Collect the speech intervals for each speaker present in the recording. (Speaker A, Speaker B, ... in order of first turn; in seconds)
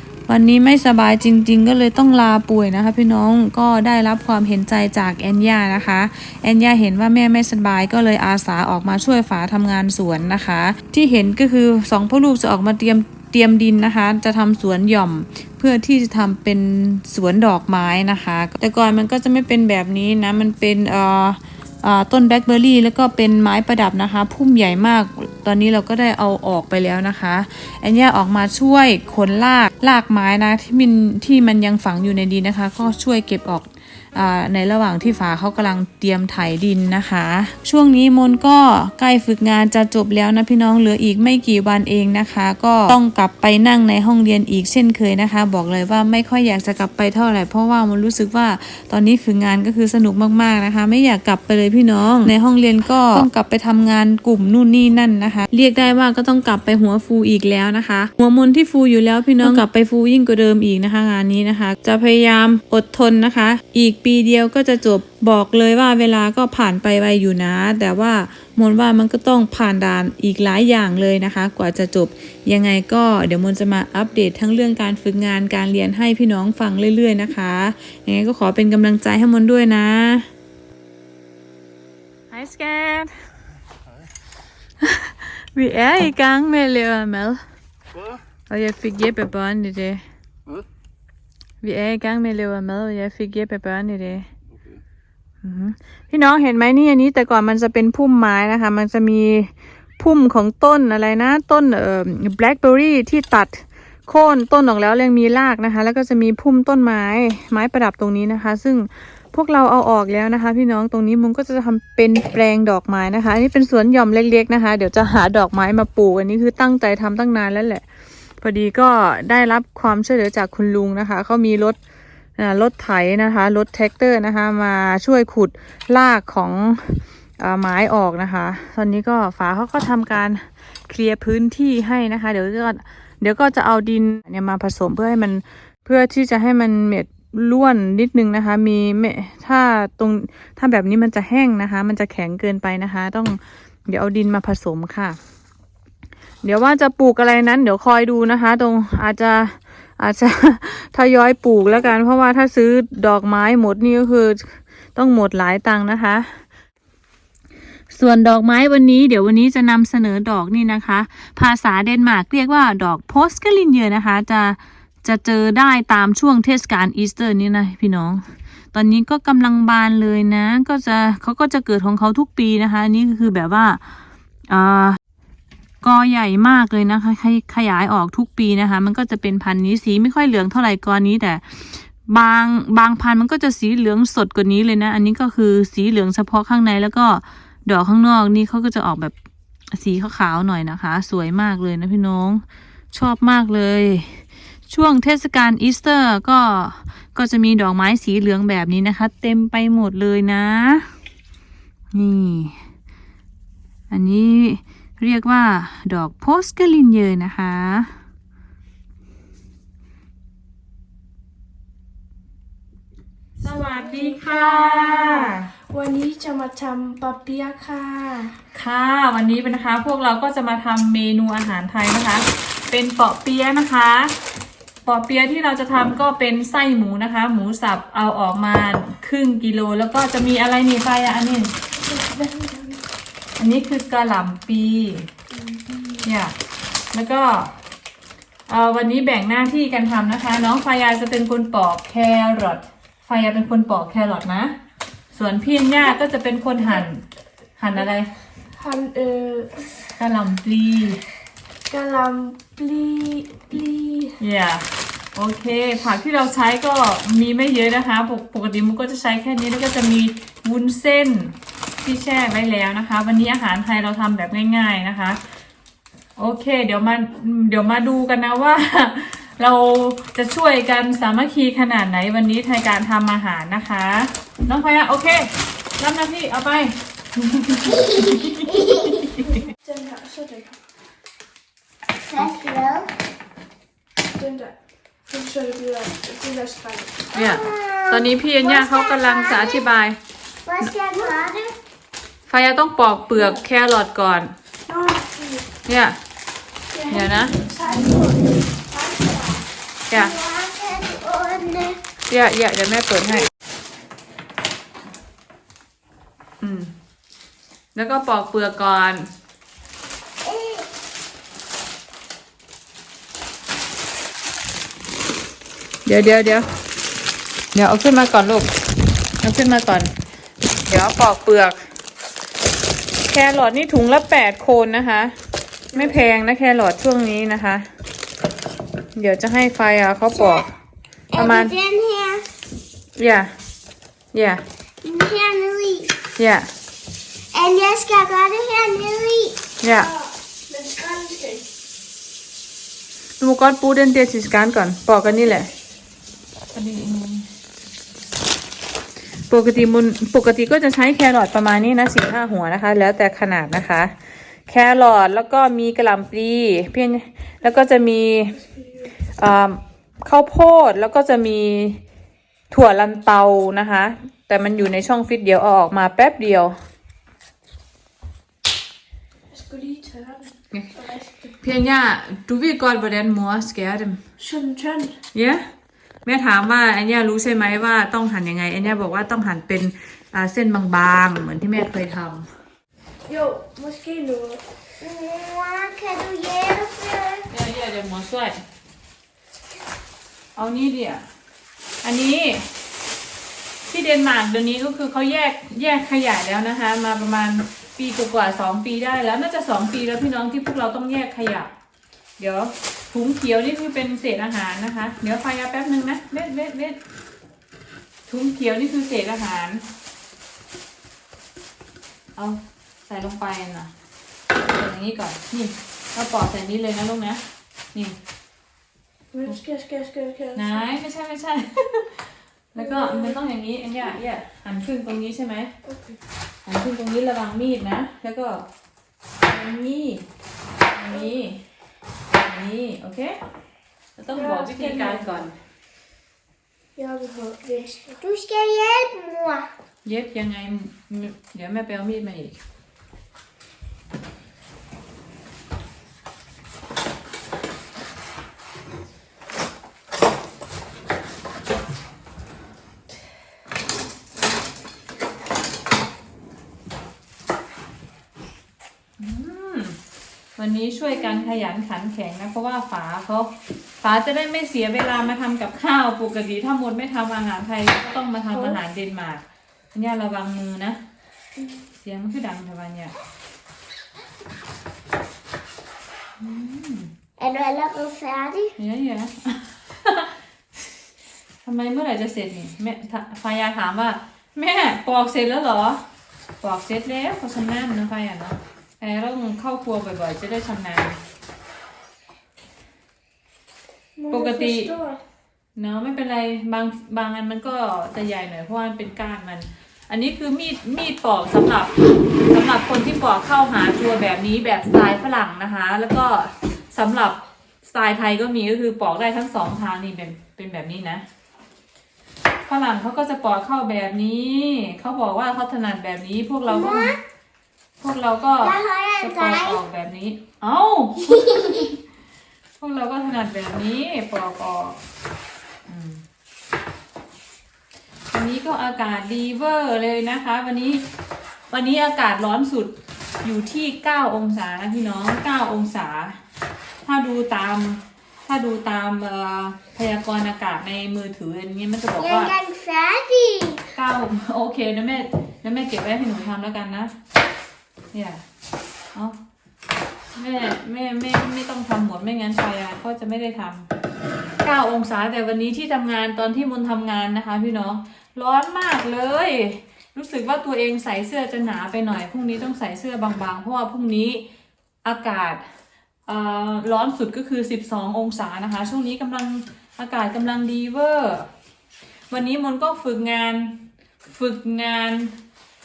Speaker A: 0.3-80.3, 82.3-83.1, 84.8-87.4, 88.5-90.0, 91.6-94.3, 95.4-117.8, 118.4-121.8, 122.4-145.2, 146.4-156.4, 157.9-173.8, 174.5-175.0, 175.8-189.2, 189.7-192.4, 192.9-200.9, 201.9-202.6, 203.9-207.9, 213.4-215.5, 218.5-224.2, 224.9-231.5, 233.4-235.1, 236.0-236.3, 236.9-237.5, 238.5-244.6, 245.1-247.0, 247.6-248.1, 250.0-251.0, 254.2-265.2, 266.2-278.6, 287.1-290.0, 292.3-294.3, 295.7-296.0, 296.9-297.4, 299.9-300.1, 302.1-303.3, 306.4-306.7, 307.8-309.1, 315.9-316.5, 317.6-318.5, 319.2-319.9, 320.7-321.6, 323.0-325.2, 325.7-327.7, 329.0-330.5, 331.1-331.5, 333.0-333.3, 334.1-334.4, 336.2-336.5, 339.6-339.9, 343.2-345.5, 346.5-347.3, 349.3-353.9, 354.5-358.4, 359.2-361.8, 362.5-366.6, 371.4-374.0, 375.1-375.4, 376.1-382.3, 387.3-388.4, 390.4-391.1, 391.8-392.5, 393.7-401.5, 402.2-406.8, 408.1-409.6, 412.2-413.7, 414.5-417.2, 420.4-425.5, 426.5-428.5, 429.2-430.1, 430.8-431.4, 432.1-433.2, 434.0-435.4, 439.9-442.4, 459.0-459.8, 460.4-470.8, 471.8-472.9, 476.2-476.9, 478.6-480.2, 481.4-485.8, 486.4-491.0, 494.1-494.7, 495.6-511.1, 512.5-516.9, 517.8-521.8, 522.6-524.8, 525.7-526.0, 528.1-530.9, 531.5-536.2, 536.8-542.3, 543.8-546.9, 547.9-548.2, 550.2-553.7, 554.4-564.2, 564.9-565.4, 566.1-571.3, 572.1-575.1
Speaker B: 213.4-218.4, 231.7-232.9, 235.3-236.1, 248.6-249.7, 251.7-254.2, 279.3-280.6, 284.1-284.6, 285.1-287.1, 293.1-293.4, 294.7-295.5, 296.7-299.4, 339.7-341.5, 358.4-358.9, 369.3-371.4, 374.2-375.0, 383.1-384.4, 419.1-420.7, 422.6-423.2, 425.6-426.0, 434.1-435.3, 436.8-438.0, 468.3-468.6, 494.0-495.0
Speaker C: 277.6-279.2, 282.0-282.9, 287.1-289.6, 290.4-291.6, 299.9-301.8, 310.2-310.7, 330.1-330.4, 331.1-332.3, 334.8-335.9, 337.3-339.4, 384.8-387.3, 437.9-439.5, 477.2-478.6, 516.5-517.0, 518.4-519.6, 521.0-521.7, 542.0-543.7